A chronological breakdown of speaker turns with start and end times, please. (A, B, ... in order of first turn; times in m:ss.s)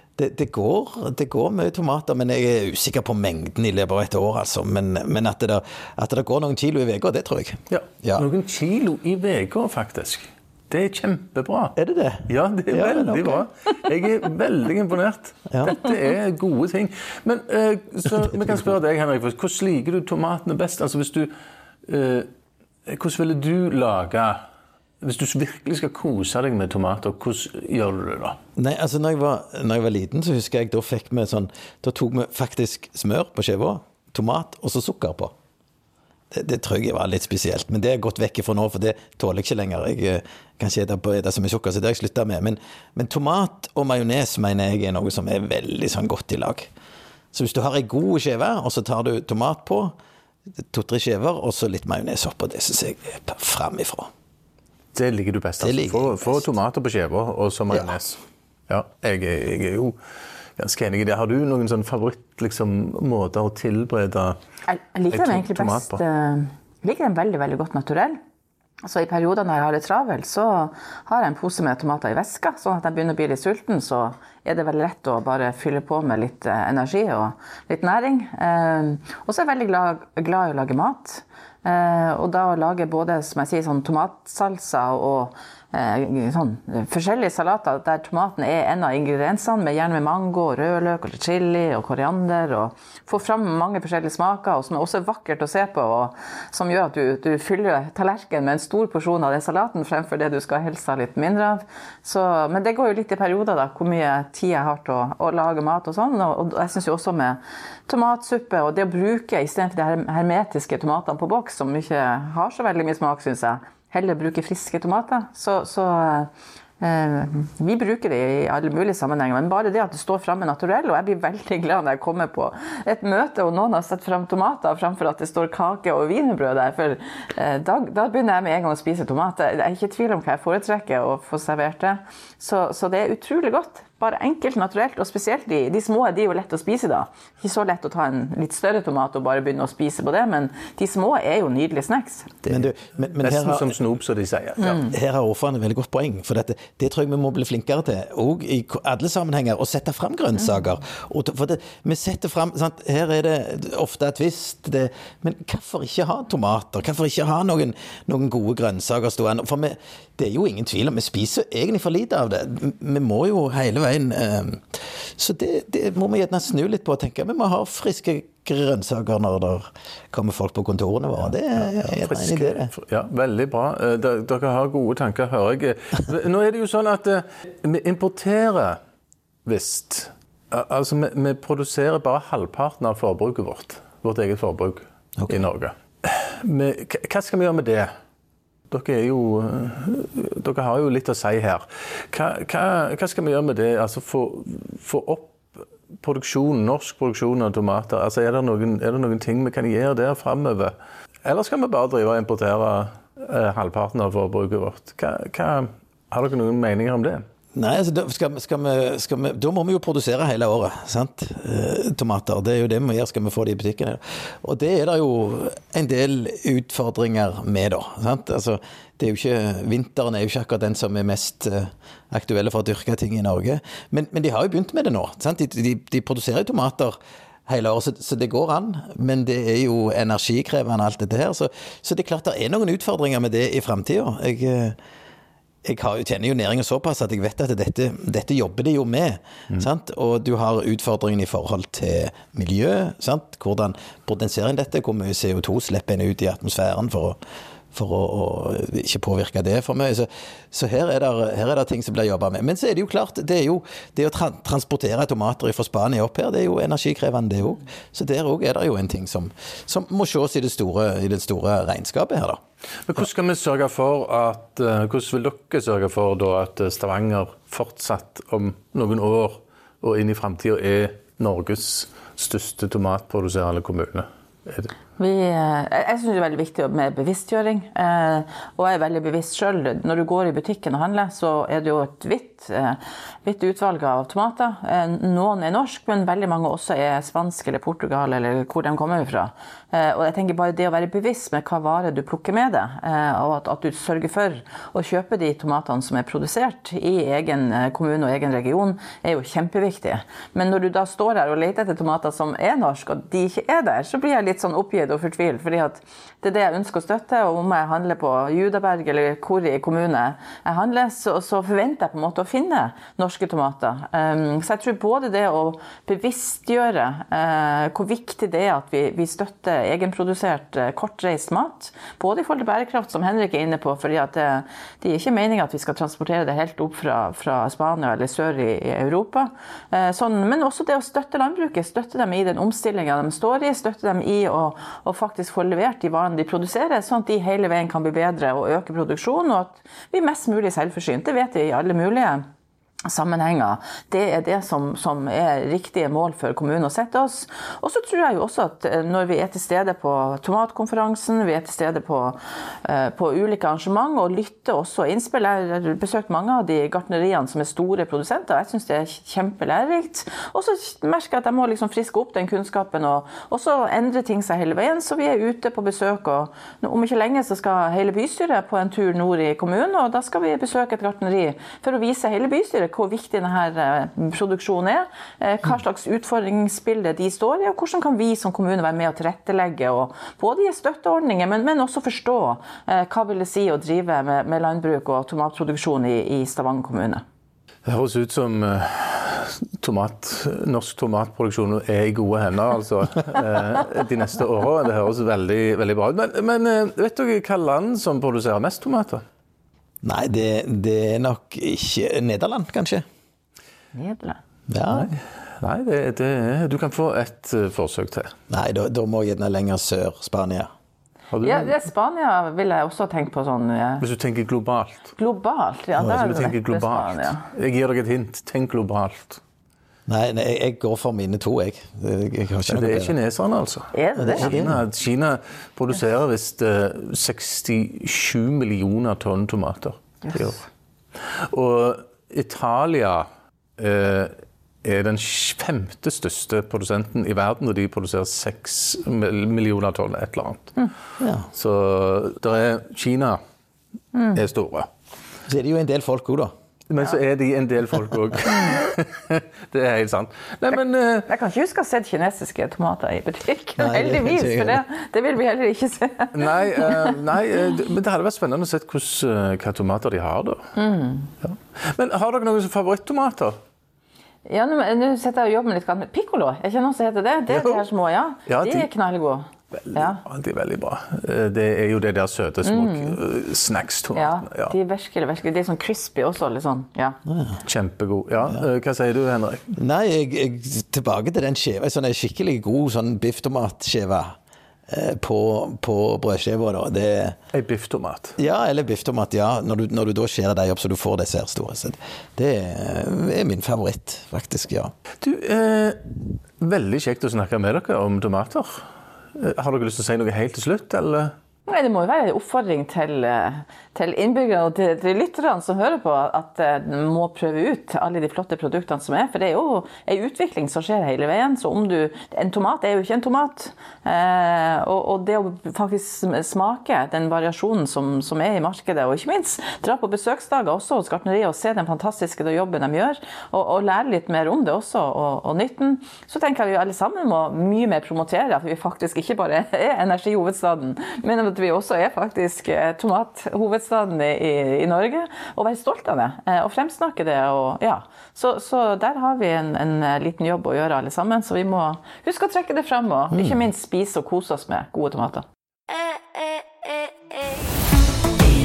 0:00.2-0:08.2 A
0:07.7-0:11.8 B
0:11.8-0:13.4 A
0:12.3-0:21.3 B
0:15.5-0:15.8 A
0:21.8-0:22.3 B
0:22.8-0:24.4 B
0:25.0-0:28.4 B
0:28.6-0:35.3 A
0:36.3-0:46.7 A
0:47.3-0:49.9 A
0:50.7-0:54.1 A
0:54.9-1:00.0 B
0:55.6-0:56.4 A
1:00.6-1:04.4 B
1:04.7-1:08.2 C
1:05.1-1:06.0 B
1:08.8-1:56.3 C
1:56.8-2:22.3 C
2:22.4-2:23.7 A
2:23.2-2:24.8 B
2:24.7-2:52.7 A
2:51.6-2:58.8 B
2:59.4-3:07.9 B
3:08.7-3:20.7 B
3:21.2-3:27.2 B
3:27.5-3:47.0 A
3:47.5-3:54.8 A
3:55.6-4:07.2 A
4:07.7-4:22.4 A
4:22.9-4:34.7 B
4:35.0-5:42.2 C
5:42.8-6:27.0 C
6:27.6-6:39.0 B
6:39.8-6:42.8 A
6:43.7-6:44.2 C
6:44.5-6:44.9 A
6:44.7-6:48.1 B
6:48.3-6:50.5 A
6:51.1-6:51.6 B
6:51.2-6:53.8 C
6:53.8-6:54.9 B
6:55.0-6:57.2 C
6:55.8-6:59.2 B
6:59.9-7:02.9 A
7:02.5-7:10.4 B
7:03.7-7:04.3 C
7:04.0-7:04.6 A
7:11.0-7:13.1 B
7:13.6-7:20.6 B
7:21.0-7:21.3 A
7:21.3-7:23.2 B
7:23.9-7:24.2 C
7:24.1-7:24.7 B
7:25.3-7:26.3 A
7:26.7-7:31.1 B
7:31.1-7:36.9 C
7:33.6-7:34.6 A
7:36.1-7:40.5 B
7:40.5-7:41.1 C
7:41.2-7:43.4 B
7:44.2-7:50.0 C
7:47.3-7:47.6 B
7:48.3-7:48.7 B
7:49.6-7:54.5 B
7:52.4-7:53.0 C
7:53.9-7:57.0 C
7:57.1-7:57.4 A
7:57.4-7:59.4 B
7:59.5-8:04.1 A
8:04.7-8:07.2 A
8:07.3-8:08.2 B
8:08.2-8:14.7 A
8:15.0-8:21.1 B
8:21.5-9:05.2 C